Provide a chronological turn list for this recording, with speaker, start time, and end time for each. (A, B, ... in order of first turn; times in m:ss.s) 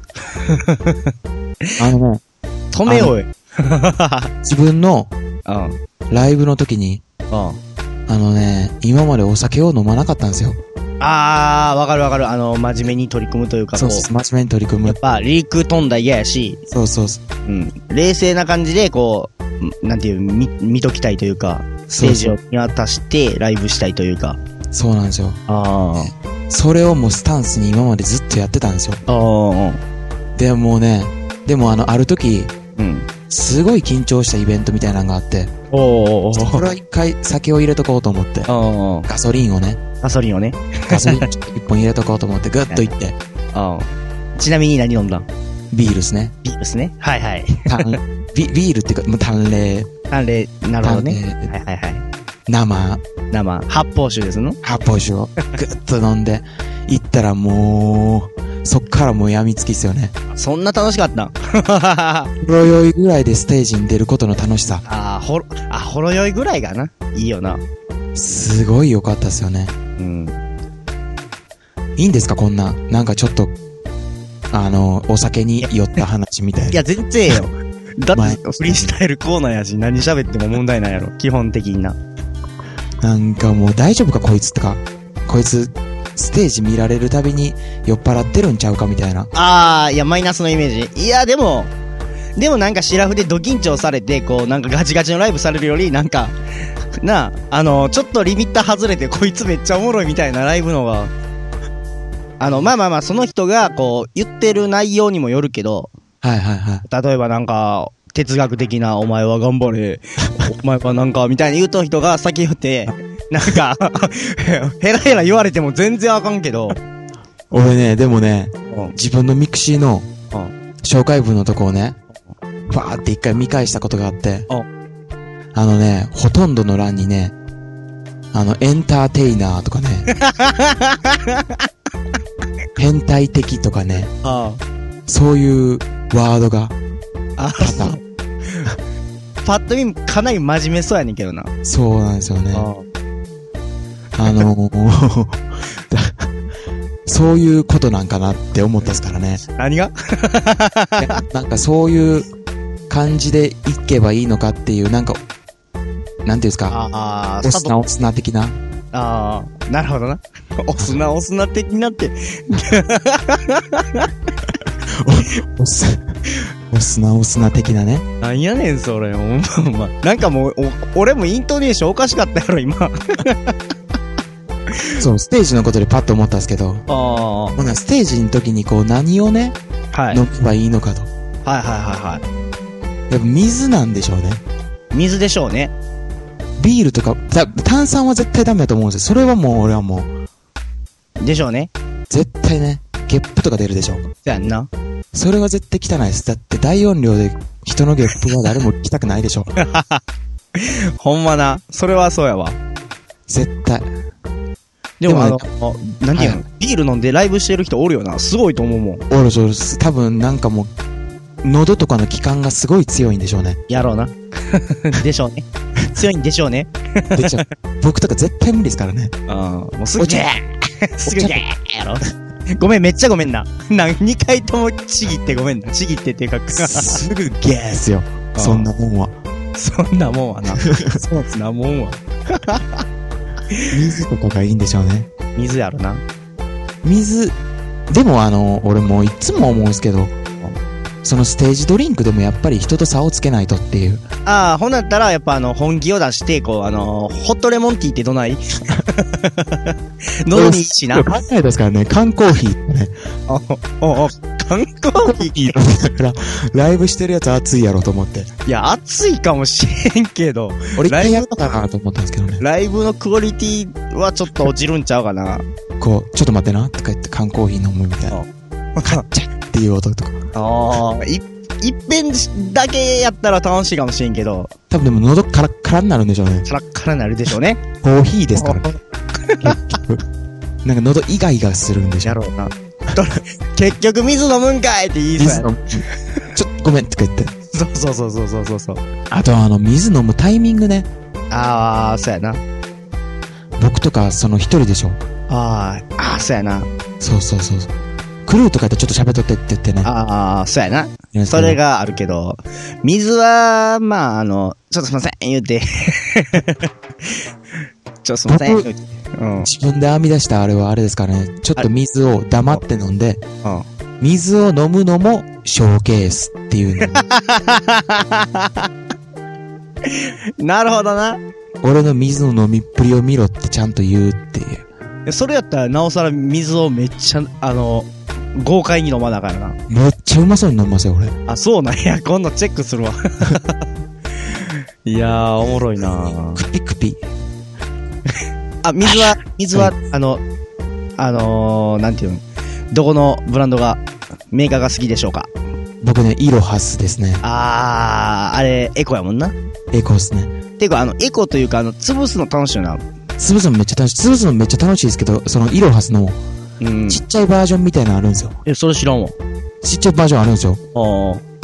0:00.4-0:01.1 A
0:01.8-0:02.2 B
0:02.7-0:04.3 A
0:02.9-0:03.1 B
0:04.4-0:05.1 B
0:05.5-0:05.7 A
0:06.1-0:07.0 B
0:07.3-0:07.6 A
0:08.1-0:10.6 B
0:11.0-0:14.1 A
0:13.8-0:15.0 B
0:14.8-0:16.6 A
0:16.7-0:17.2 B
0:17.5-0:24.4 A
0:21.9-0:22.4 B
0:24.7-0:25.4 B
0:25.5-0:26.1 A
0:26.0-0:29.0 B
0:29.1-0:29.8 A
0:30.4-0:32.5 B
0:32.8-0:33.1 A
0:33.3-0:35.5 B
0:35.7-0:36.7 A
0:36.4-0:38.5 B
0:38.5-0:39.1 A
0:39.1-0:39.8 B
0:40.0-0:41.3 A
0:40.9-0:43.2 B
0:43.5-0:45.3 A
0:45.7-0:46.4 B
0:46.4-0:48.0 A
0:47.7-0:49.9 B
0:50.1-0:52.1 A
0:50.8-0:51.5 B
0:52.5-0:53.0 B
0:53.3-0:54.6 A
0:54.6-1:00.2 B
1:00.3-1:02.3 A
1:02.4-1:04.8 B
1:04.8-1:07.6 A
1:08.2-1:09.8 B
1:10.0-1:10.4 A
1:12.0-1:13.5 B
1:14.5-1:16.8 B
1:16.7-1:22.0 A
1:18.1-1:18.9 B
1:23.0-1:29.3 B
1:29.3-1:31.7 A
1:32.4-1:36.3 A
1:37.0-1:41.1 A
1:42.4-1:45.9 A
1:46.2-1:46.8 B
1:46.9-1:56.8 A
1:57.5-2:00.1 B
2:00.8-2:02.0 B
2:02.7-2:04.5 B
2:05.5-2:07.4 B
2:08.3-2:10.1 B
2:10.2-2:11.6 A
2:12.8-2:14.1 B
2:14.2-2:14.6 A
2:15.1-2:16.8 B
2:17.4-2:18.7 A
2:17.6-2:18.0 B
2:19.4-2:21.5 A
2:21.6-2:22.7 B
2:22.5-2:22.8 A
2:24.2-2:26.3 B
2:27.1-2:29.4 B
2:29.6-2:31.2 A
2:31.0-2:32.3 B
2:32.9-2:35.2 B
2:36.2-2:36.8 B
2:36.7-2:37.8 A
2:37.4-2:38.6 B
2:38.9-2:44.1 A
2:44.9-2:46.0 B
2:46.7-2:48.0 B
2:48.2-2:53.6 A
2:55.0-2:56.9 B
2:56.9-2:57.6 A
2:57.6-2:59.6 B
2:59.9-3:00.2 A
3:00.1-3:01.1 B
3:01.4-3:02.2 A
3:03.1-3:04.4 B
3:04.9-3:05.7 A
3:06.6-3:10.1 B
3:11.2-3:11.7 A
3:12.1-3:14.1 B
3:14.2-3:14.7 A
3:15.1-3:19.5 B
3:19.6-3:20.0 A
3:20.6-3:22.6 A
3:23.3-3:23.9 B
3:25.0-3:29.0 A
3:25.1-3:25.4 B
3:26.2-3:26.4 B
3:29.1-3:30.7 B
3:31.4-3:33.6 B
3:33.7-3:37.4 A
3:37.2-3:39.1 B
3:39.3-3:47.0 A
3:40.0-3:40.3 B
3:41.1-3:41.4 B
3:46.5-3:49.2 B
3:48.3-3:48.7 A
3:49.6-3:52.8 A
3:50.6-3:51.0 B
3:53.7-3:55.1 B
3:55.4-3:56.0 A
3:56.8-3:57.4 B
3:57.9-4:00.1 B
4:01.0-4:04.0 B
4:04.3-4:11.1 A
4:10.3-4:13.0 B
4:13.3-4:15.5 A
4:15.0-4:18.3 B
4:18.5-4:21.4 A
4:20.8-4:22.4 B
4:22.4-4:25.4 A
4:25.8-4:28.2 B
4:28.1-4:29.0 A
4:28.8-4:30.2 B
4:30.3-4:34.5 A
4:34.7-4:36.5 B
4:36.5-4:37.6 A
4:37.8-4:38.7 B
4:38.4-4:39.8 A
4:39.4-4:40.0 B
4:40.6-4:42.2 B
4:42.0-4:46.2 A
4:45.2-4:47.3 B
4:47.5-4:48.8 A
4:49.1-4:50.9 B
4:51.3-4:52.4 A
4:53.6-4:55.0 B
4:55.3-4:56.7 A
4:57.0-4:57.7 B
4:58.3-4:59.9 B
4:59.8-5:07.2 A
5:01.1-5:01.6 B
5:08.0-5:09.5 A
5:08.3-5:08.7 B
5:09.4-5:13.2 B
5:14.0-5:17.0 B
5:16.8-5:18.7 A
5:19.8-5:21.2 A
5:21.6-5:24.7 B
5:25.1-5:29.6 A
5:29.7-5:31.2 B
5:31.3-5:33.6 A
5:34.4-5:36.4 A
5:36.3-5:37.0 B
5:38.6-5:40.2 A
5:38.8-5:39.7 B
5:41.0-5:45.3 A
5:45.8-5:47.2 B
5:47.2-5:49.4 A
5:49.7-5:50.3 B
5:50.6-5:52.8 A
5:53.2-5:56.2 B
5:56.6-5:57.0 A
5:56.9-5:58.4 B
5:58.5-5:59.2 A
5:59.6-6:00.6 B
6:00.7-6:01.2 A